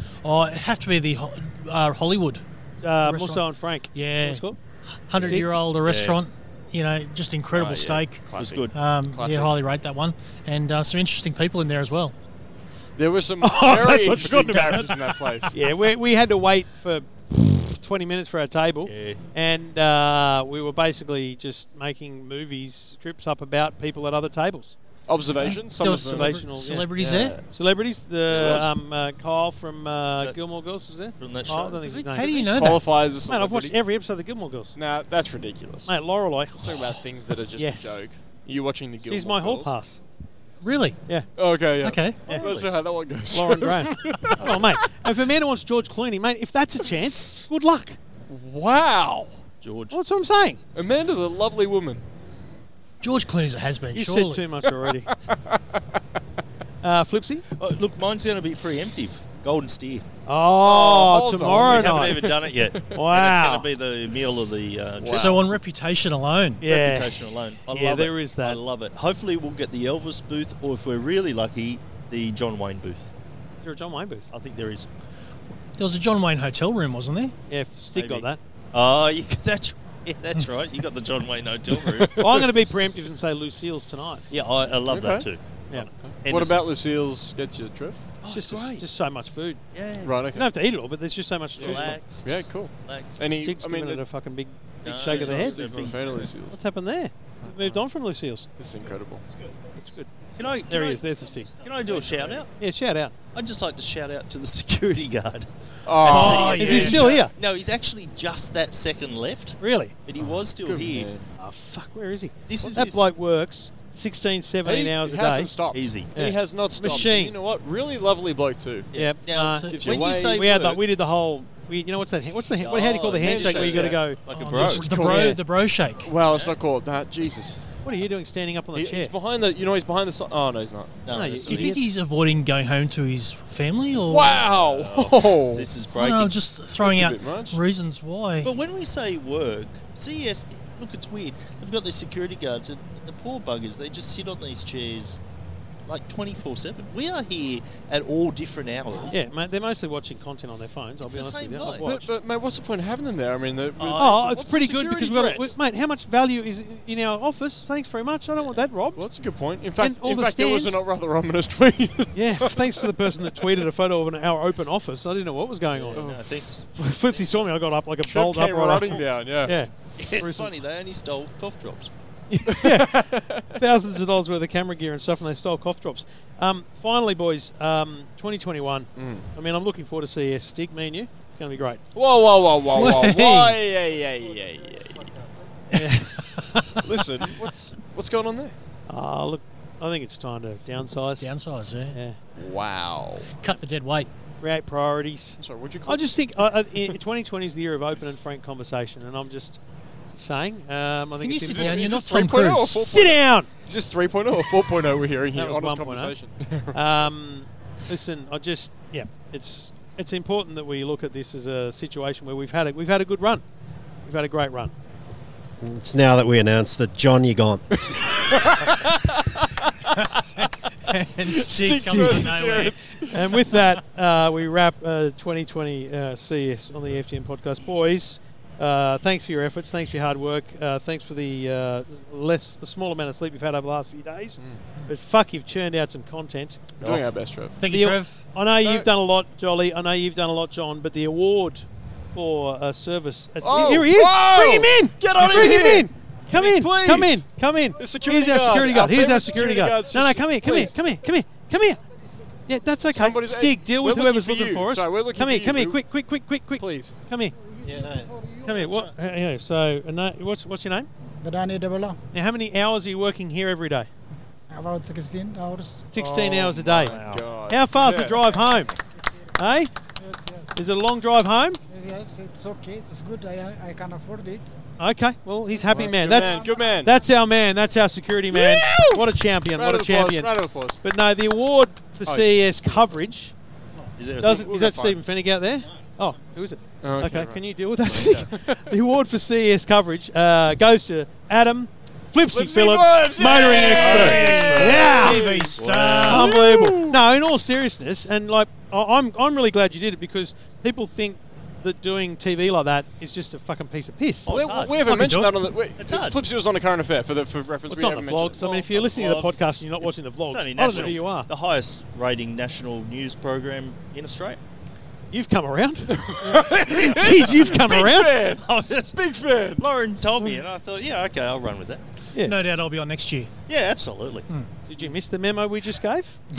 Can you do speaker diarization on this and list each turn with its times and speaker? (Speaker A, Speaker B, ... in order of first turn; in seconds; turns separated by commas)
Speaker A: 0.2-2.4, Speaker B: 2.8-4.6, Speaker A: 3.0-4.5, Speaker A: 5.1-12.1, Speaker C: 5.2-6.2, Speaker B: 5.2-5.5, Speaker D: 7.5-9.5, Speaker C: 8.4-8.8, Speaker D: 13.0-15.5, Speaker B: 13.4-24.8, Speaker A: 14.5-14.9, Speaker C: 18.8-19.2, Speaker D: 25.1-27.4, Speaker A: 25.4-27.4, Speaker B: 25.8-34.8, Speaker C: 28.3-28.7, Speaker D: 28.3-28.7, Speaker C: 31.2-32.1, Speaker D: 31.8-33.8, Speaker A: 32.1-32.9, Speaker D: 34.8-35.9, Speaker B: 35.9-36.8, Speaker D: 36.5-39.7, Speaker B: 37.6-38.0, Speaker B: 39.0-40.0, Speaker A: 40.6-41.0, Speaker D: 41.4-44.9, Speaker A: 41.8-42.2, Speaker B: 42.2-48.0, Speaker D: 48.3-49.4, Speaker C: 49.6-50.0, Speaker B: 49.9-50.6, Speaker D: 50.7-52.0, Speaker A: 53.0-54.5, Speaker B: 53.9-55.1, Speaker D: 54.7-55.8, Speaker B: 56.8-57.4, Speaker C: 57.5-60.1, Speaker B: 60.2-62.3, Speaker D: 60.6-62.5, Speaker C: 61.6-65.4, Speaker B: 62.9-63.7, Speaker D: 65.0-65.4, Speaker A: 65.1-66.6, Speaker B: 66.6-68.6, Speaker C: 66.6-73.1, Speaker B: 73.6-74.3, Speaker C: 74.3-74.9, Speaker A: 75.8-77.3, Speaker B: 77.5-78.4, Speaker C: 77.9-82.4, Speaker D: 81.7-82.4, Speaker B: 82.2-84.2, Speaker C: 84.3-85.6, Speaker D: 84.8-85.3, Speaker D: 85.8-88.0, Speaker C: 86.2-86.6, Speaker C: 88.2-88.8, Speaker B: 88.2-89.6, Speaker C: 89.7-90.2, Speaker D: 90.0-90.5, Speaker B: 90.3-92.0, Speaker C: 91.5-93.2, Speaker D: 91.6-94.0, Speaker B: 93.3-95.7, Speaker C: 94.8-96.3, Speaker D: 94.9-96.6, Speaker B: 96.5-98.5, Speaker D: 97.4-97.8, Speaker D: 98.6-99.2, Speaker B: 99.8-100.1, Speaker C: 100.3-102.5, Speaker B: 100.6-101.5, Speaker D: 101.8-102.4, Speaker B: 102.6-103.1, Speaker C: 103.3-111.1, Speaker D: 105.8-107.0, Speaker A: 106.0-107.1, Speaker B: 106.2-107.3, Speaker B: 109.6-109.9, Speaker D: 110.6-111.3, Speaker B: 111.4-115.5, Speaker C: 112.5-113.1, Speaker D: 114.6-118.9, Speaker C: 115.7-116.1, Speaker B: 116.1-117.3, Speaker C: 118.9-120.8, Speaker B: 118.9-125.4, Speaker A: 119.3-120.0, Speaker D: 119.7-120.4, Speaker C: 122.6-124.9, Speaker D: 123.0-125.4, Speaker A: 124.3-126.1, Speaker D: 126.0-127.7, Speaker C: 126.1-126.5, Speaker B: 127.8-129.1, Speaker D: 128.7-131.3, Speaker C: 131.0-131.8, Speaker B: 131.1-131.8, Speaker A: 131.4-134.5, Speaker D: 134.1-135.7, Speaker C: 134.5-136.4, Speaker A: 135.9-138.5, Speaker D: 136.8-137.6, Speaker C: 138.4-145.2, Speaker C: 145.8-149.2, Speaker B: 149.1-152.1, Speaker C: 151.0-151.9, Speaker D: 151.8-155.6, Speaker C: 153.8-154.4, Speaker B: 153.9-159.0, Speaker D: 158.9-163.7, Speaker B: 159.8-160.8, Speaker B: 162.1-166.1, Speaker C: 165.7-167.5, Speaker D: 165.9-166.3, Speaker B: 166.7-170.5, Speaker D: 168.1-169.6, Speaker C: 170.0-171.9, Speaker B: 172.3-181.8, Speaker D: 172.5-173.6, Speaker D: 178.9-179.3, Speaker D: 181.9-185.2, Speaker A: 182.7-183.6, Speaker B: 185.7-187.3, Speaker A: 186.2-186.7, Speaker D: 186.8-188.5, Speaker B: 188.9-191.3, Speaker A: 191.2-192.0, Speaker B: 191.9-192.2, Speaker D: 192.4-193.3, Speaker A: 193.3-194.1, Speaker B: 194.4-199.6, Speaker D: 195.4-196.2, Speaker B: 200.1-201.9, Speaker A: 201.2-202.8, Speaker D: 201.5-207.1, Speaker B: 202.8-203.5, Speaker B: 205.3-213.4, Speaker B: 214.0-214.7, Speaker E: 215.6-217.9, Speaker D: 218.1-219.7, Speaker A: 219.9-223.2, Speaker D: 221.2-223.3, Speaker B: 223.1-236.6, Speaker C: 236.8-237.1, Speaker D: 236.8-237.6, Speaker A: 237.6-238.3, Speaker B: 237.7-251.8, Speaker D: 238.6-238.9, Speaker D: 243.4-247.2, Speaker D: 247.8-250.8, Speaker B: 252.4-257.3, Speaker D: 252.9-255.8, Speaker D: 256.6-256.9, Speaker F: 257.4-258.6, Speaker B: 258.3-260.9, Speaker F: 261.2-262.0, Speaker B: 262.1-263.9, Speaker F: 264.5-265.9, Speaker B: 265.9-268.8, Speaker D: 265.9-268.2, Speaker C: 266.8-267.2, Speaker B: 269.4-269.7, Speaker F: 270.0-270.6, Speaker B: 270.6-271.6, Speaker F: 271.7-274.5, Speaker B: 274.8-283.3, Speaker F: 275.5-276.7, Speaker D: 275.7-276.9, Speaker D: 278.3-280.8, Speaker D: 282.1-282.9, Speaker C: 284.0-284.7, Speaker B: 284.2-295.2, Speaker D: 284.2-285.0, Speaker D: 286.8-288.6, Speaker C: 288.0-288.3, Speaker D: 292.3-297.0, Speaker C: 293.4-296.3, Speaker A: 294.3-296.4, Speaker B: 296.0-304.3, Speaker C: 304.2-304.8, Speaker D: 304.3-308.6, Speaker A: 304.8-305.5, Speaker C: 305.8-306.2, Speaker B: 307.7-311.3, Speaker C: 308.4-309.4, Speaker C: 310.3-314.4, Speaker B: 315.1-318.2, Speaker D: 315.9-319.7, Speaker C: 318.3-319.0, Speaker C: 319.6-321.8, Speaker A: 322.2-323.3, Speaker C: 323.5-324.3, Speaker B: 324.7-326.2